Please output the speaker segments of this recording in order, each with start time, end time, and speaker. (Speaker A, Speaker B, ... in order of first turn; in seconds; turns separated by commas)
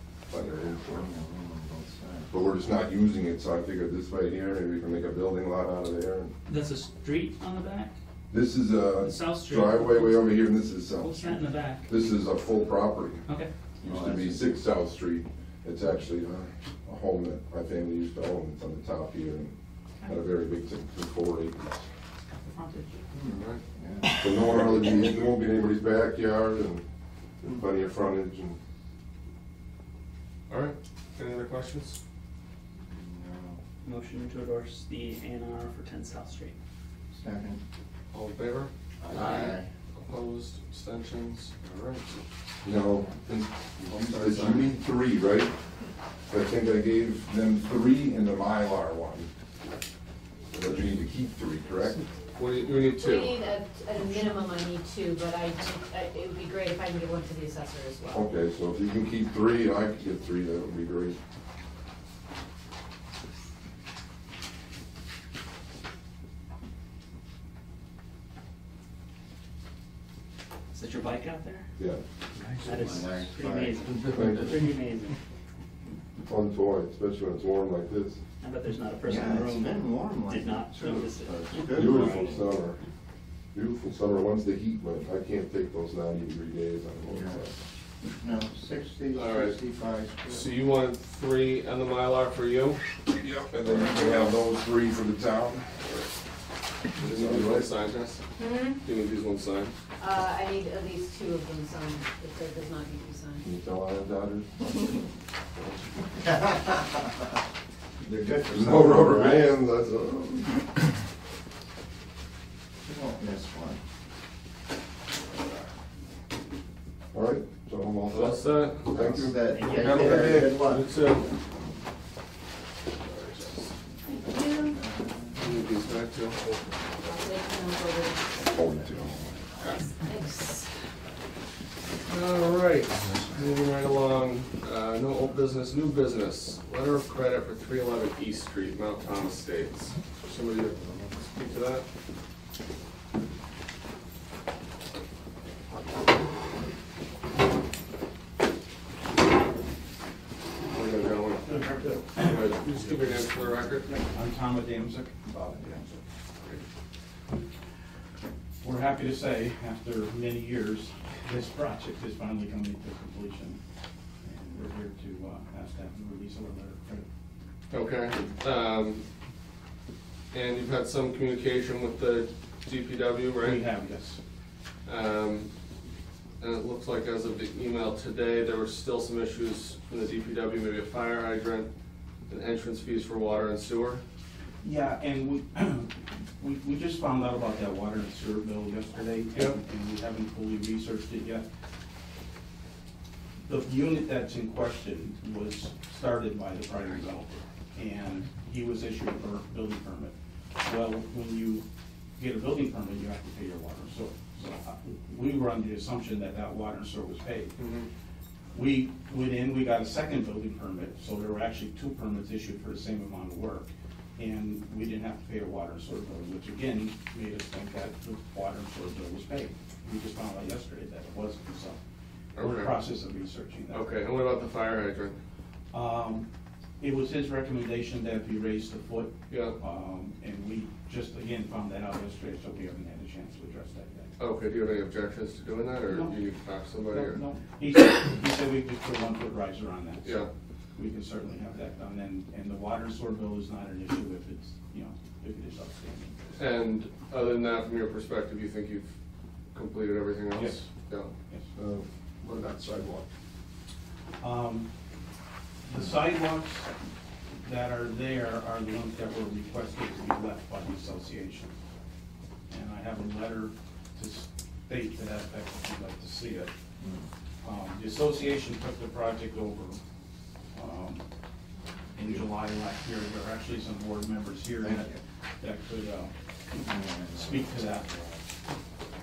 Speaker A: 0.3-1.1, Speaker B: 0.9-2.3, Speaker A: 2.3-6.3, Speaker C: 6.5-7.9, Speaker A: 8.3-11.3, Speaker C: 9.0-10.3, Speaker C: 10.9-11.9, Speaker A: 11.9-13.2, Speaker B: 13.8-14.6, Speaker A: 13.9-19.5, Speaker A: 20.1-21.8, Speaker C: 22.3-23.0, Speaker B: 23.1-24.6, Speaker D: 23.3-23.6, Speaker A: 24.2-26.8, Speaker A: 27.4-28.6, Speaker D: 30.5-32.0, Speaker B: 32.9-33.6, Speaker C: 33.8-36.5, Speaker B: 37.1-37.6, Speaker D: 38.1-42.1, Speaker B: 39.0-39.7, Speaker A: 42.6-45.5, Speaker D: 43.9-44.7, Speaker A: 46.3-49.3, Speaker A: 50.5-52.0, Speaker D: 52.4-53.4, Speaker E: 53.0-58.2, Speaker A: 58.1-61.2, Speaker C: 70.7-71.7, Speaker A: 71.8-72.0, Speaker B: 72.5-74.2, Speaker C: 72.6-75.2, Speaker A: 74.1-74.7, Speaker A: 76.3-78.2, Speaker C: 78.4-82.3, Speaker B: 79.0-82.5, Speaker A: 81.7-82.8, Speaker A: 83.5-87.5, Speaker B: 87.0-87.5, Speaker B: 88.2-90.5, Speaker D: 89.1-89.6, Speaker D: 90.3-92.8, Speaker A: 93.2-95.7, Speaker D: 93.6-94.3, Speaker D: 95.8-96.1, Speaker D: 97.0-98.2, Speaker A: 97.1-97.7, Speaker E: 98.4-98.8, Speaker D: 98.8-99.7, Speaker E: 100.0-103.5, Speaker A: 103.4-104.8, Speaker A: 105.6-105.9, Speaker B: 106.2-107.0, Speaker B: 108.0-109.6, Speaker A: 108.5-110.7, Speaker B: 112.8-113.8, Speaker A: 117.1-119.5, Speaker D: 118.1-121.3, Speaker B: 118.9-121.5, Speaker C: 119.6-120.1, Speaker D: 123.0-123.7, Speaker E: 124.2-124.8, Speaker B: 124.2-125.6, Speaker D: 125.4-126.4, Speaker E: 127.0-128.4, Speaker A: 128.4-129.4, Speaker E: 130.0-130.7, Speaker D: 132.1-141.9, Speaker B: 140.8-141.2, Speaker D: 150.7-153.9, Speaker F: 151.4-152.5, Speaker F: 154.1-155.2, Speaker B: 155.2-156.0, Speaker F: 158.6-163.6, Speaker F: 164.2-167.1, Speaker D: 167.7-169.1, Speaker D: 170.3-173.6, Speaker F: 173.4-174.2, Speaker D: 174.8-175.5, Speaker D: 176.4-181.7, Speaker D: 182.3-184.0, Speaker F: 184.6-191.5, Speaker F: 193.4-201.7, Speaker F: 202.2-207.6, Speaker D: 207.6-207.9, Speaker F: 208.5-221.8, Speaker D: 222.3-222.7, Speaker F: 222.4-224.0, Speaker D: 223.7-225.2, Speaker F: 225.7-226.3, Speaker F: 226.8-234.1, Speaker D: 229.3-229.6, Speaker D: 234.2-237.2, Speaker F: 235.9-236.2, Speaker F: 236.9-240.2, Speaker D: 240.0-240.3, Speaker F: 240.8-246.4, Speaker D: 246.4-248.9, Speaker D: 249.5-251.1, Speaker F: 250.3-250.7, Speaker A: 251.6-253.0, Speaker F: 254.2-254.7, Speaker F: 255.7-256.7, Speaker F: 257.4-261.6, Speaker F: 262.5-266.5, Speaker B: 266.8-267.1, Speaker F: 267.4-269.8, Speaker F: 270.5-271.0, Speaker F: 271.9-278.0, Speaker B: 274.6-274.9, Speaker B: 276.6-278.1